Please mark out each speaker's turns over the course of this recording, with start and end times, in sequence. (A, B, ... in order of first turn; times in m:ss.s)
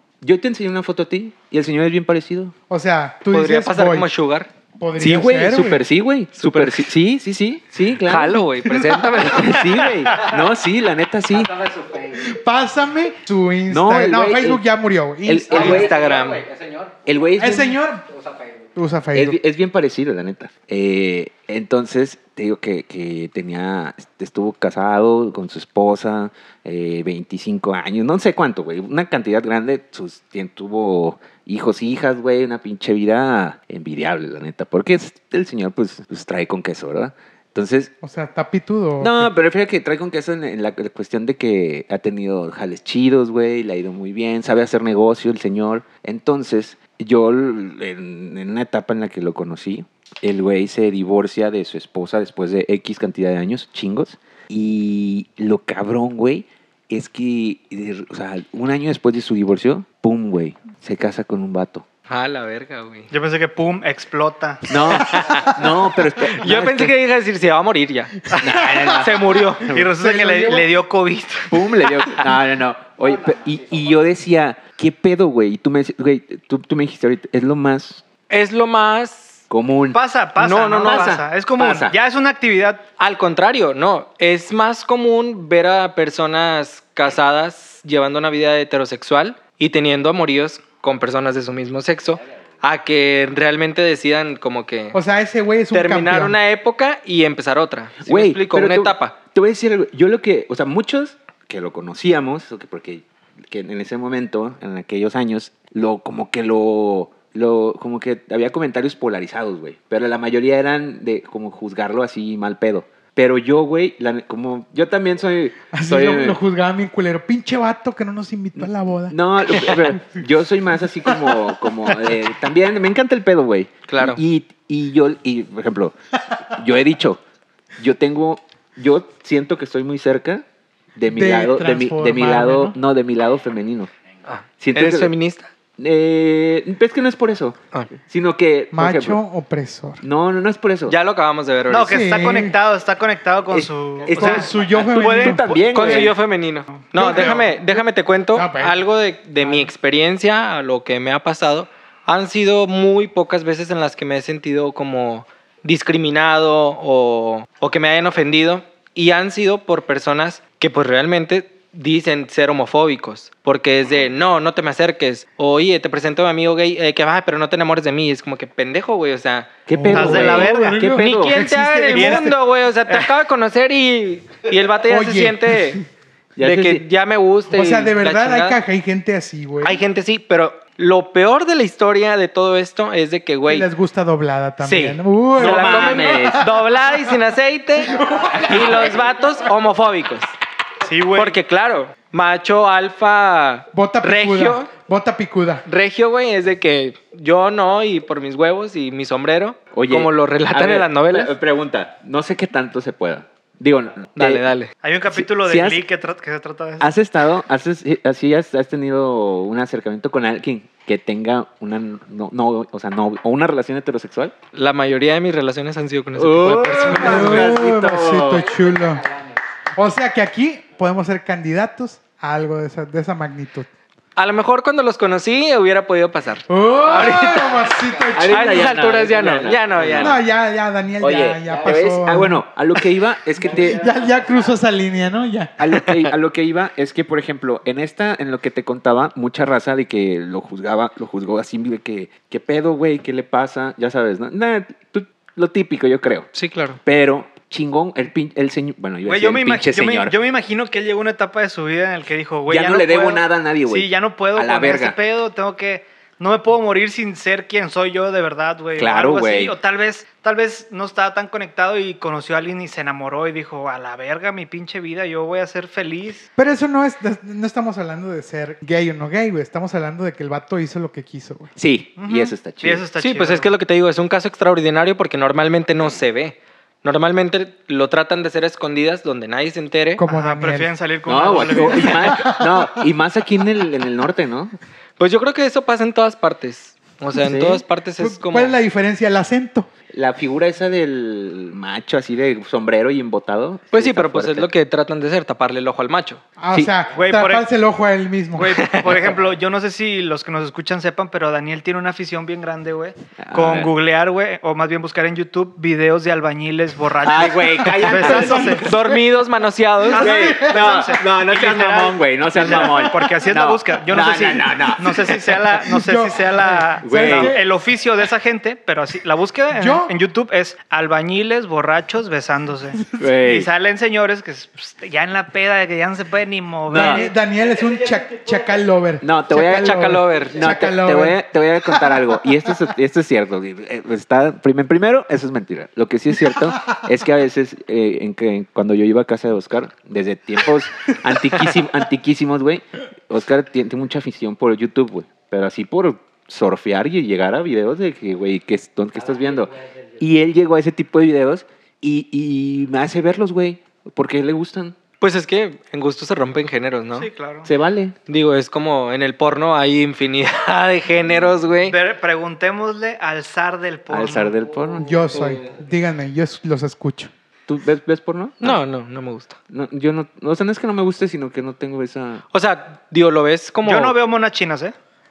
0:00.2-0:02.5 A
0:02.7-0:04.1 B
0:03.3-0:04.5 C
0:04.8-0:05.8 B
0:05.0-0:11.5 A
0:06.4-0:06.9 C
0:08.0-0:09.8 C
0:11.4-0:12.3 D
0:12.2-0:15.9 B
0:13.7-0:14.6 A
0:15.3-0:16.0 A
0:15.5-0:17.0 D
0:15.5-0:16.4 C
0:17.0-0:17.8 A
0:17.4-0:18.1 B
0:18.1-0:18.7 D
0:18.8-0:19.4 B
0:19.1-0:37.9 A
0:38.0-0:39.3 B
0:39.0-1:01.8 A
1:02.1-1:03.1 C
1:03.1-1:04.8 E
1:04.7-1:07.0 A
1:05.1-1:05.6 C
1:06.2-1:08.2 C
1:08.4-1:09.9 A
1:08.9-1:09.7 C
1:09.6-1:11.7 E
1:09.8-1:10.8 B
1:11.5-1:18.0 A
1:18.3-1:19.4 C
1:19.5-1:20.0 A
1:19.9-1:22.8 E
1:20.4-1:21.1 C
1:20.8-1:22.0 A
1:23.0-1:35.0 C
1:34.9-1:36.4 B
1:35.7-1:39.2 C
1:38.0-1:56.4 A
1:55.7-2:00.0 B
1:58.6-2:07.2 A
2:01.1-2:02.2 B
2:03.9-2:04.2 C
2:07.8-2:10.4 A
2:11.0-2:13.9 A
2:11.1-2:12.8 B
2:14.3-2:15.5 C
2:14.6-2:15.1 A
2:15.8-2:17.6 A
2:18.1-2:19.2 A
2:18.7-2:20.0 B
2:20.0-2:21.0 A
2:20.9-2:22.1 C
2:21.7-2:26.1 E
2:21.9-2:22.6 B
2:23.5-2:26.1 A
2:24.1-2:25.5 B
2:25.7-2:49.5 C
2:26.8-2:27.4 E
2:26.9-2:27.8 B
2:28.3-2:28.8 B
2:49.7-2:51.4 A
2:49.7-2:52.4 B
2:49.9-2:50.8 E
2:51.0-2:55.8 C
2:51.9-2:52.3 E
2:54.9-2:55.9 B
2:56.4-2:56.8 A
2:56.4-2:58.6 C
2:57.5-2:59.8 B
2:59.6-3:03.7 C
3:03.5-3:06.6 B
3:04.6-3:10.3 C
3:05.4-3:06.4 A
3:07.9-3:09.0 B
3:10.8-3:11.4 E
3:11.2-3:14.7 C
3:13.7-3:15.6 B
3:15.7-3:21.3 C
3:19.7-3:24.5 A
3:24.2-3:24.7 C
3:24.8-3:26.9 E
3:25.1-3:25.8 A
3:26.8-3:34.4 A
3:34.5-3:37.5 C
3:36.2-3:38.5 A
3:36.8-3:39.0 B
3:38.4-3:39.2 D
3:39.8-3:43.7 B
3:44.2-3:47.7 C
3:46.5-3:48.8 B
3:48.1-3:50.2 A
3:48.3-3:50.2 C
3:50.0-3:52.4 B
3:51.0-3:53.8 A
3:51.4-3:51.8 D
3:53.4-3:54.5 D
3:53.4-3:55.9 B
3:55.6-4:06.3 A
4:06.3-4:06.8 C
4:06.8-4:10.1 A
4:09.0-4:26.3 E
4:12.5-4:15.0 A
4:18.8-4:19.6 A
4:26.4-4:31.5 B
4:31.6-4:32.8 A
4:32.0-4:33.5 E
4:33.0-4:40.0 C
4:40.0-4:40.8 B
4:40.1-4:42.4 E
4:41.1-4:44.5 A
4:41.5-4:42.7 B
4:45.0-4:48.6 C
4:47.2-4:49.7 B
4:49.9-4:54.5 A
4:53.7-4:56.2 C
4:56.4-4:59.0 B
4:57.0-4:57.5 E
4:58.4-5:08.7 E
5:03.2-5:03.7 A
5:07.0-5:08.7 A
5:07.8-5:09.0 B
5:08.5-5:10.1 C
5:09.9-5:10.8 B
5:09.9-5:27.2 E
5:09.9-5:15.4 A
5:12.5-5:12.8 B
5:15.6-5:17.4 B
5:16.8-5:17.4 A
5:19.5-5:20.0 B
5:23.0-5:23.5 A
5:26.7-5:27.1 A
5:26.7-5:32.5 B
5:27.4-5:28.6 D
5:29.0-5:54.8 A
5:29.3-5:30.4 C
5:49.0-5:50.0 D
5:55.0-5:57.1 C
5:56.9-5:57.5 E
5:57.4-5:58.0 A
5:58.1-6:01.8 C
6:01.7-6:04.3 E
6:03.9-6:05.2 A
6:04.4-6:05.6 D
6:04.8-6:07.1 B
6:07.5-6:08.6 A
6:08.4-6:09.4 C
6:09.5-6:12.2 A
6:12.3-6:14.0 C
6:13.6-6:14.8 E